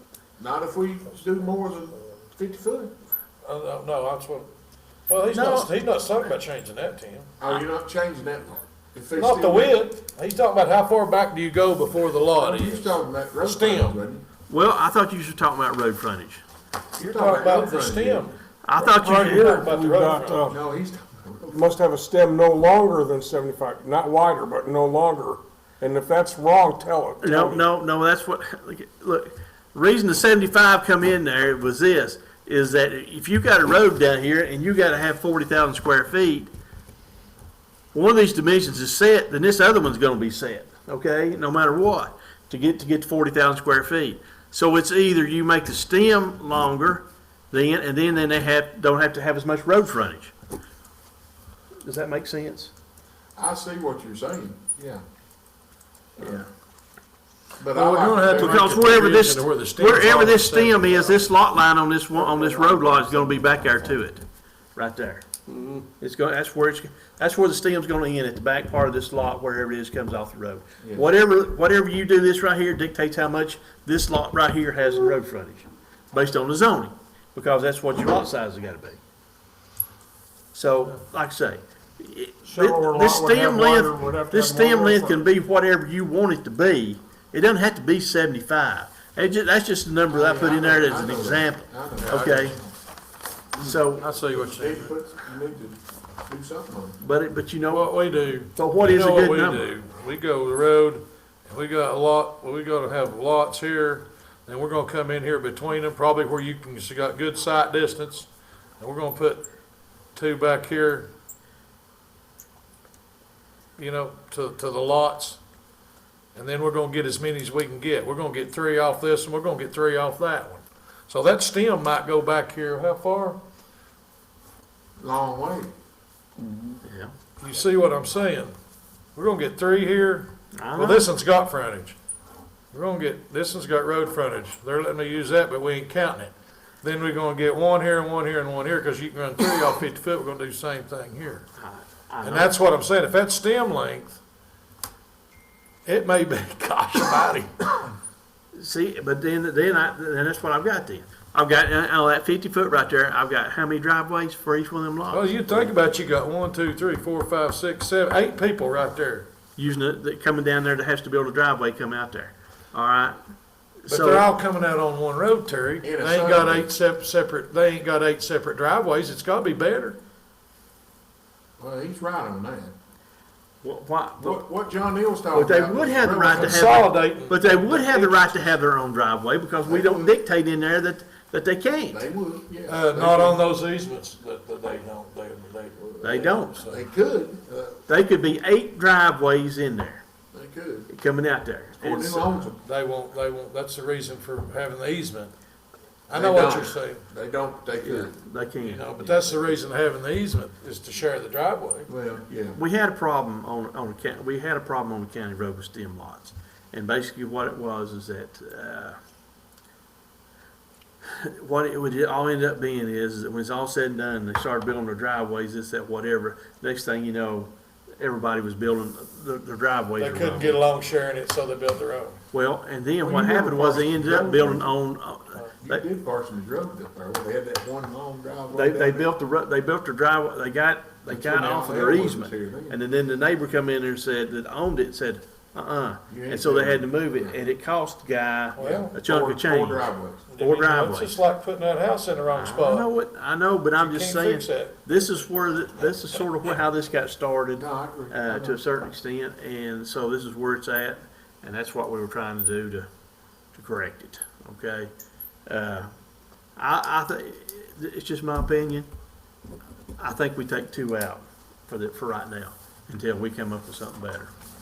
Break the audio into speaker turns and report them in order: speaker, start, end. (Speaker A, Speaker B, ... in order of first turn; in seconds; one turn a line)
Speaker A: 0.4-2.9
Speaker B: 3.5-4.5
Speaker B: 5.1-7.3
Speaker C: 5.3-5.7
Speaker A: 7.4-9.8
Speaker B: 9.1-14.0
Speaker A: 12.4-14.2
Speaker C: 14.5-16.4
Speaker A: 16.9-18.3
Speaker B: 17.0-18.4
Speaker C: 18.6-19.7
Speaker D: 18.8-20.6
Speaker B: 19.1-20.5
Speaker A: 20.4-21.6
Speaker D: 21.5-27.6
Speaker C: 27.2-36.5
Speaker C: 37.9-50.3
Speaker C: 51.9-52.7
Speaker A: 53.4-55.0
Speaker A: 56.2-56.5
Speaker A: 57.6-59.1
Speaker B: 57.7-60.9
Speaker C: 58.3-64.2
Speaker A: 62.3-63.0
Speaker C: 64.8-65.2
Speaker C: 66.0-79.0
Speaker C: 80.5-92.6
Speaker D: 82.4-85.2
Speaker A: 90.1-92.7
Speaker B: 92.0-92.5
Speaker A: 93.6-97.0
Speaker C: 93.6-94.1
Speaker B: 94.0-95.0
Speaker C: 97.0-97.9
Speaker B: 97.7-108.3
Speaker C: 98.5-99.7
Speaker B: 108.8-109.5
Speaker B: 110.1-111.1
Speaker B: 113.8-115.4
Speaker B: 116.3-123.4
Speaker A: 125.0-125.7
Speaker C: 126.8-127.1
Speaker B: 127.4-128.5
Speaker B: 129.2-132.0
Speaker C: 130.6-131.1
Speaker B: 132.7-141.4
Speaker C: 141.6-142.6
Speaker B: 142.2-144.2
Speaker B: 145.9-147.9
Speaker C: 148.6-155.7
Speaker B: 155.1-159.3
Speaker C: 159.6-163.2
Speaker C: 163.8-164.3
Speaker B: 163.9-170.0
Speaker A: 165.8-166.7
Speaker A: 171.6-172.7
Speaker C: 173.6-174.4
Speaker A: 174.2-176.7
Speaker C: 175.3-182.0
Speaker B: 176.3-178.5
Speaker A: 179.7-179.9
Speaker A: 181.9-183.4
Speaker B: 182.7-186.8
Speaker C: 186.0-186.6
Speaker A: 186.6-187.8
Speaker C: 187.9-190.0
Speaker A: 190.3-190.9
Speaker C: 190.9-192.3
Speaker A: 191.8-192.6
Speaker B: 192.6-195.3
Speaker B: 196.1-197.0
Speaker A: 196.1-198.1
Speaker C: 197.8-198.9
Speaker B: 198.6-201.9
Speaker A: 201.9-202.6
Speaker C: 202.6-209.0
Speaker C: 211.1-220.6
Speaker B: 220.0-222.2
Speaker C: 222.3-225.8
Speaker A: 223.0-224.6
Speaker A: 225.6-229.1
Speaker C: 228.5-241.2
Speaker A: 231.1-232.8
Speaker A: 236.1-237.3
Speaker B: 238.6-239.0
Speaker A: 238.6-240.3
Speaker B: 240.3-242.9
Speaker C: 242.3-252.9
Speaker B: 243.8-244.8
Speaker A: 247.6-248.6
Speaker C: 253.5-254.9
Speaker C: 255.5-255.9
Speaker C: 256.6-258.9
Speaker C: 260.0-264.3